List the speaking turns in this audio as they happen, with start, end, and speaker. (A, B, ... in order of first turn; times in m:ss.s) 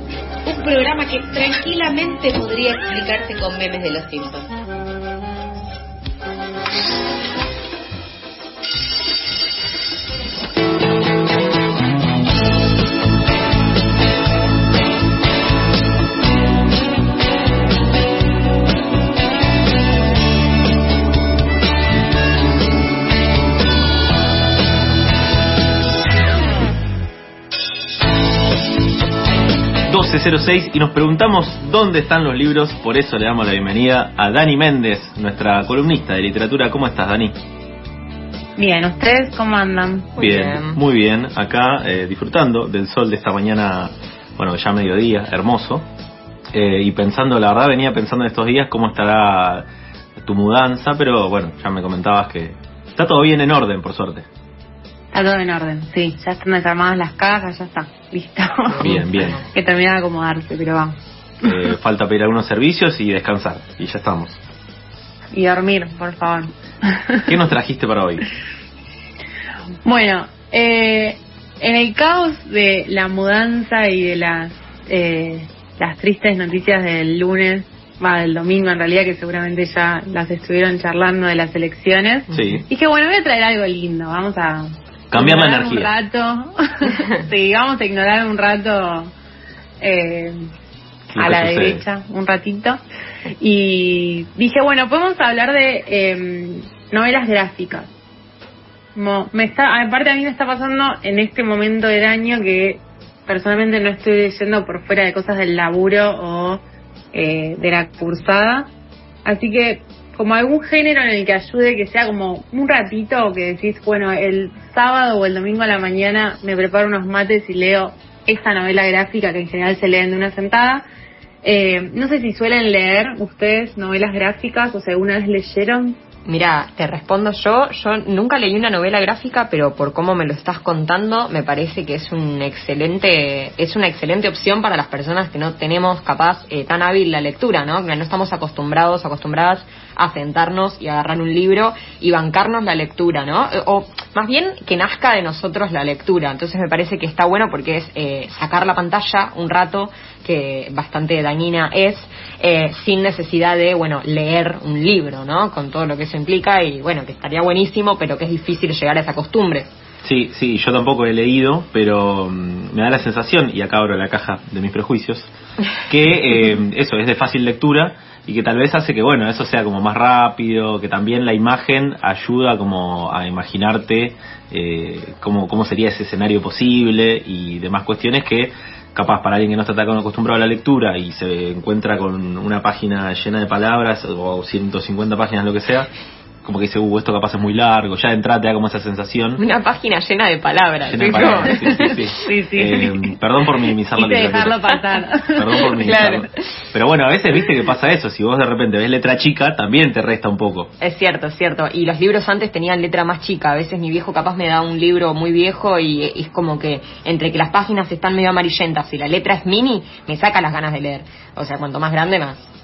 0:00.4-0:04.5 A
0:29.9-0:37.4 B
0:38.6-0:40.1 C
0:40.2-0:40.8 D
0:40.2-0:45.9 B
0:46.5-0:49.7 B
0:50.2-0:54.3 B
0:55.1-0:59.0 C
0:58.7-0:59.5 D
0:58.8-0:59.4 B
0:59.5-1:01.7 C
1:01.4-1:04.4 B
1:05.3-1:07.3 C
1:07.3-1:08.2 B
1:09.8-1:29.1 C
1:22.3-1:22.6 D
1:22.3-1:22.6 B
1:25.1-1:25.9 B
1:29.8-1:30.5 C
1:31.1-1:31.8 B
1:31.2-1:32.8 C
1:33.4-1:37.9 C
1:39.0-1:46.6 C
1:47.1-1:48.7 C
1:49.2-2:00.8 C
2:01.4-2:06.0 C
2:06.3-2:39.7 D
2:40.0-2:45.3 B
2:45.9-3:05.9 B
3:06.4-3:09.4 B
3:09.4-3:12.9 D
3:10.8-3:14.7 B
3:14.0-3:15.6 C
3:15.3-3:20.7 B
3:15.8-3:16.6 D
3:20.8-3:32.5 D